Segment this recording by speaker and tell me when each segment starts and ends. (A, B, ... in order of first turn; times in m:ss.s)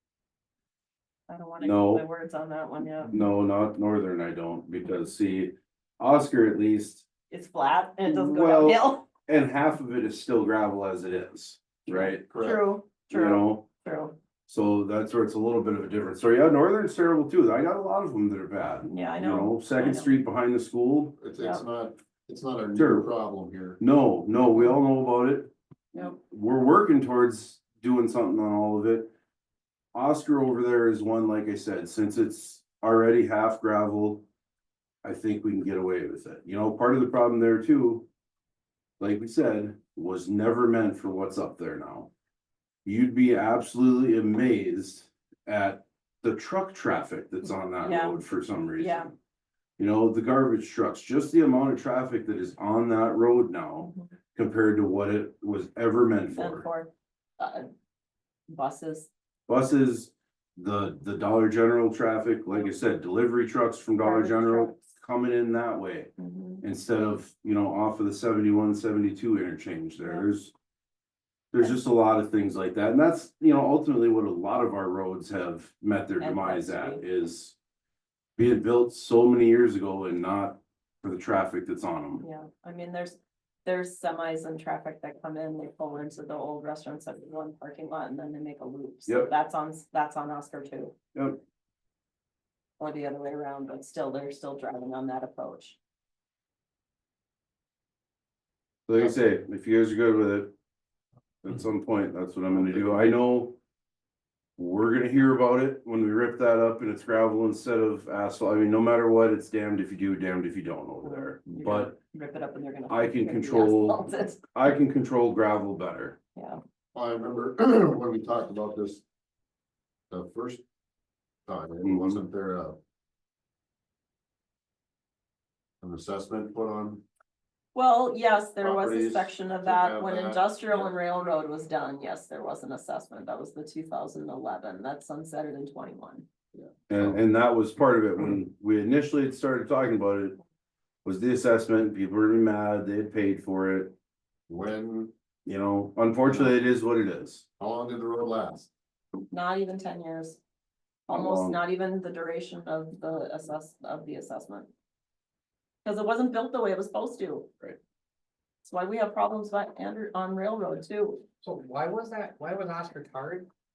0:01.3-0:03.2 A
0:01.6-0:02.0 B
0:03.0-0:07.1 B
0:07.3-0:09.1 A
0:08.0-0:12.2 B
0:11.9-0:14.2 A
0:12.3-0:12.6 C
0:13.1-0:13.6 B
0:14.5-0:21.2 B
0:18.8-0:20.2 A
0:21.2-0:23.8 C
0:22.7-0:23.1 B
0:23.8-0:25.5 B
0:26.0-0:29.1 B
0:29.9-0:34.2 B
0:35.0-0:38.1 B
0:39.0-0:42.1 B
0:42.8-0:49.1 B
0:47.8-0:48.2 A
0:48.8-0:49.1 A
0:49.8-0:56.6 B
0:53.8-0:54.1 A
0:56.3-0:57.7 A
0:58.5-0:59.1 A
0:59.5-1:06.1 B
1:04.0-1:04.8 A
1:06.2-1:06.6 A
1:06.6-1:10.5 B
1:11.5-1:17.5 B
1:16.2-1:17.0 A
1:18.4-1:22.2 B
1:22.2-1:30.9 A
1:31.1-1:31.4 B
1:32.8-1:35.8 A
1:38.9-1:40.5 B
1:41.4-1:43.6 B
1:44.6-1:52.0 B
1:51.0-1:54.5 A
1:52.9-1:56.2 B
1:56.9-1:59.0 C
2:00.1-2:00.6 C
2:01.4-2:02.8 C
2:01.8-2:02.2 B
2:05.8-2:07.0 C
2:07.7-2:16.2 A
2:08.6-2:10.4 C
2:16.5-2:17.2 C
2:16.9-2:20.4 B
2:21.0-2:23.9 B
2:24.5-2:25.1 C
2:25.4-2:27.4 B
2:26.2-2:26.6 C
2:27.6-2:28.7 C
2:29.3-2:30.4 A
2:31.1-2:34.7 A
2:31.1-2:31.6 B
2:35.8-2:37.5 A
2:38.6-2:41.2 A
2:41.4-2:43.5 D